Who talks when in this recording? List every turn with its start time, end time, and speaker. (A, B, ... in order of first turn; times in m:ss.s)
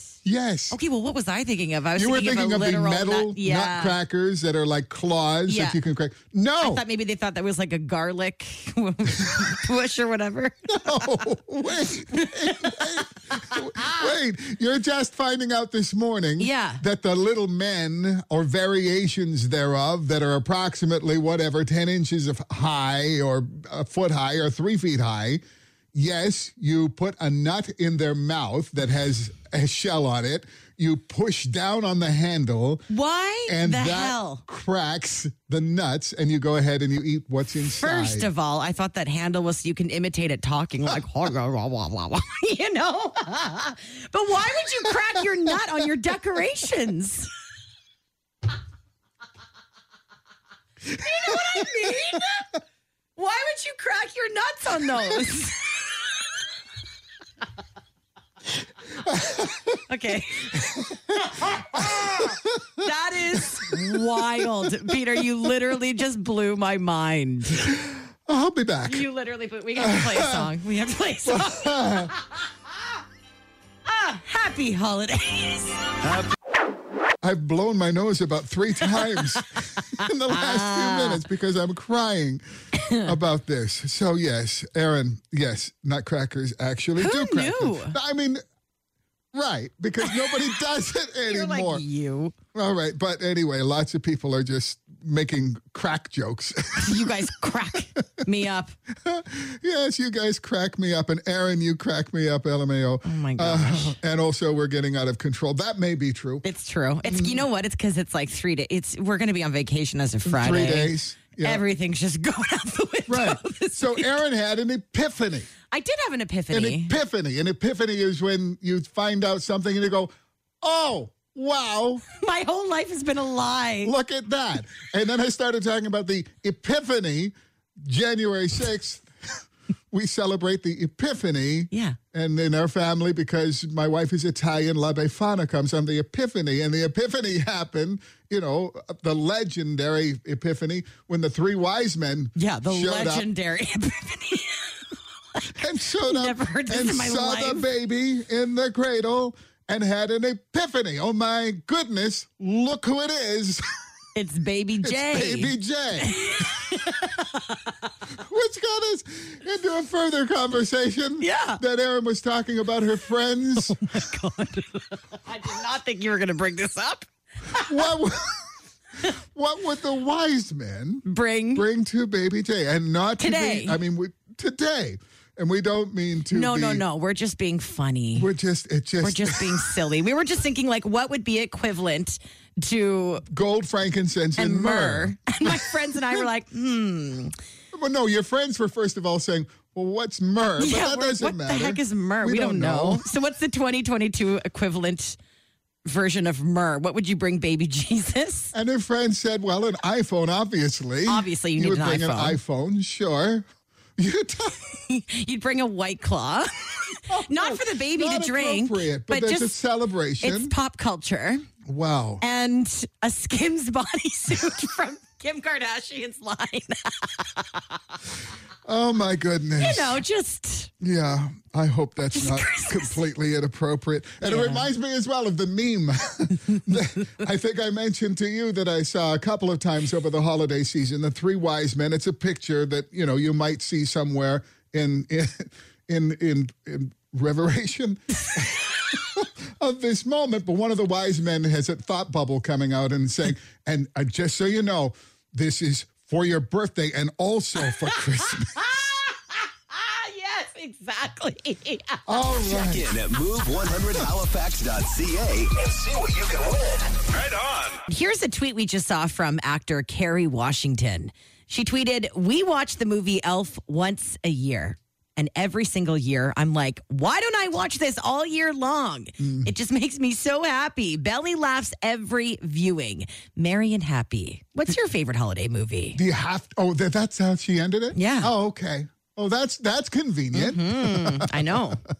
0:00.2-0:00.8 A
0:00.7-0:04.0 B
0:02.0-0:06.8 A
0:05.5-0:05.8 B
0:06.6-0:11.1 B
0:10.7-0:25.4 A
0:12.1-0:14.0 B
0:16.4-0:16.8 B
0:25.9-0:32.9 A
0:32.9-0:34.4 B
0:33.5-0:38.3 A
0:37.7-0:47.3 B
0:50.9-0:52.5 B
0:51.3-0:52.2 A
0:53.2-0:55.7 B
0:59.0-0:59.8 A
0:59.9-1:07.7 B
1:00.6-1:02.8 A
1:03.4-1:05.5 A
1:07.6-1:09.0 A
1:08.8-1:12.4 B
1:09.8-1:10.5 A
1:11.2-1:12.1 A
1:13.9-1:15.8 B
1:17.2-1:28.4 A
1:18.9-1:19.4 B
1:20.0-1:21.2 B
1:22.8-1:23.1 B
1:27.0-1:28.0 B
1:29.3-1:31.8 A
1:30.0-1:30.4 B
1:31.3-1:32.3 B
1:32.5-1:37.6 A
1:36.8-1:38.7 B
1:39.0-1:46.4 A
1:43.0-1:44.0 B
1:46.4-1:54.2 B
1:47.0-1:47.4 A
1:50.2-1:51.6 A
1:53.1-1:55.5 A
1:55.7-1:57.0 B
1:56.5-2:02.0 A
2:02.2-2:03.9 B
2:03.8-2:09.4 A
2:09.9-2:23.3 A
2:11.7-2:12.0 B
2:22.4-2:24.8 B
2:25.4-2:27.7 B
2:25.5-2:33.7 A
2:34.2-2:37.7 B
2:34.8-2:36.5 A
2:38.1-2:44.0 A
2:41.2-2:41.6 B
2:43.6-2:47.8 B
2:47.6-2:48.4 A
2:49.3-2:56.8 A
2:51.0-2:51.7 B
2:53.2-2:53.8 B
2:56.3-2:58.3 B
2:58.2-2:59.7 A
2:59.0-3:03.3 B
3:03.3-3:06.2 A
3:04.4-3:07.4 B
3:07.7-3:13.1 A
3:10.6-3:15.2 B
3:15.9-3:18.5 B
3:18.5-3:23.5 A
3:21.1-3:22.4 B
3:24.0-3:24.6 A
3:24.8-3:29.6 B
3:27.1-3:30.5 A
3:30.2-3:31.5 B
3:31.7-3:32.2 A
3:32.2-3:37.8 B
3:38.6-3:40.0 A
3:39.6-3:40.7 B
3:40.8-4:08.9 A
3:42.1-3:43.0 B
3:44.2-3:44.7 B
4:07.6-4:12.6 B
4:12.1-4:12.9 A
4:12.5-4:17.8 C
4:17.9-4:36.0 B
4:29.2-4:29.5 A
4:36.0-4:41.6 A
4:37.9-4:38.3 B
4:40.3-4:41.8 B